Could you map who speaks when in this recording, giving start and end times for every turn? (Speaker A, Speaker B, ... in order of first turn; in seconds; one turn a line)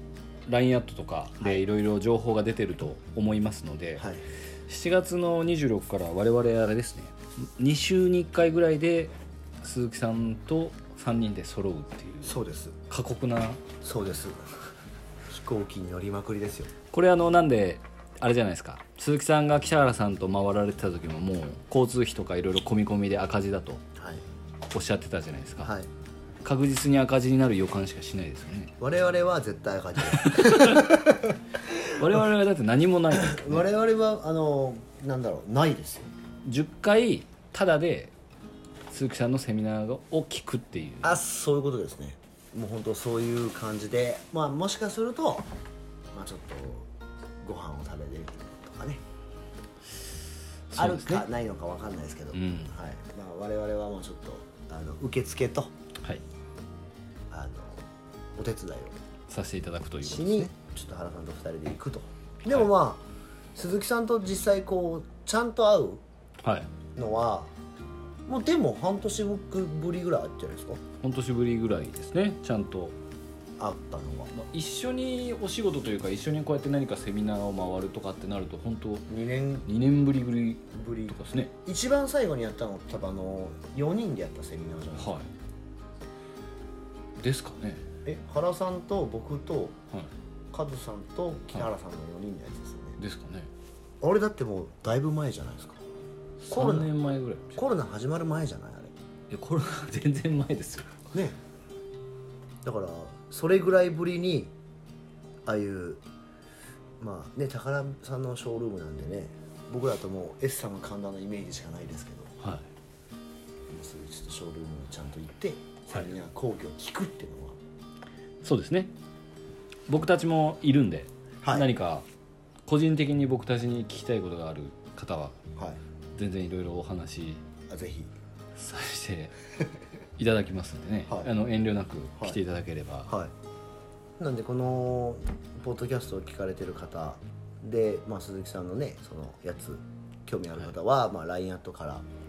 Speaker A: 0.5-4.1
Speaker B: 4.0-4.2
Speaker A: 4.7-12.4
Speaker B: 12.2-12.8
Speaker A: 12.9-13.6
Speaker B: 13.8-14.4
Speaker B: 15.3-16.7
Speaker A: 16.9-23.8
Speaker B: 24.0-24.2
Speaker A: 24.7-25.7
Speaker B: 25.6-25.9
Speaker A: 26.4-28.7
Speaker B: 28.8-31.4
Speaker A: 30.1-31.0
Speaker A: 31.9-33.7
Speaker B: 33.1-36.1
Speaker A: 36.5-38.1
Speaker A: 38.9-41.2
Speaker B: 41.0-45.5
Speaker B: 46.1-46.9
Speaker B: 47.4-49.0
Speaker A: 50.7-51.3
Speaker B: 50.8-55.7
Speaker A: 52.3-52.7
Speaker B: 57.3-59.0
Speaker A: 59.3-60.5
Speaker B: 60.0-66.0
Speaker A: 66.4-66.7
Speaker B: 67.0-67.5
Speaker B: 68.3-70.8
Speaker A: 71.0-73.0
Speaker B: 73.6-74.3
Speaker A: 74.3-79.1
Speaker B: 79.1-79.7
Speaker A: 79.7-81.5
Speaker B: 80.7-85.2
Speaker A: 85.0-85.3
Speaker A: 87.2-87.8
Speaker B: 88.0-89.8
Speaker B: 90.5-93.0
Speaker A: 93.0-93.5
Speaker B: 94.0-95.8
Speaker A: 96.4-97.6
Speaker B: 96.5-96.9
Speaker B: 97.6-98.9
Speaker A: 99.3-101.0
Speaker B: 102.6-104.5
Speaker B: 105.5-106.0
Speaker B: 107.0-112.3
Speaker B: 113.7-117.6
Speaker A: 118.4-118.9
Speaker A: 119.9-122.1
Speaker B: 121.4-121.7
Speaker A: 122.7-125.4
Speaker A: 126.2-127.4
Speaker B: 127.7-128.1
Speaker A: 128.6-129.4
Speaker A: 130.2-133.1
Speaker B: 131.1-131.3
Speaker B: 134.2-142.0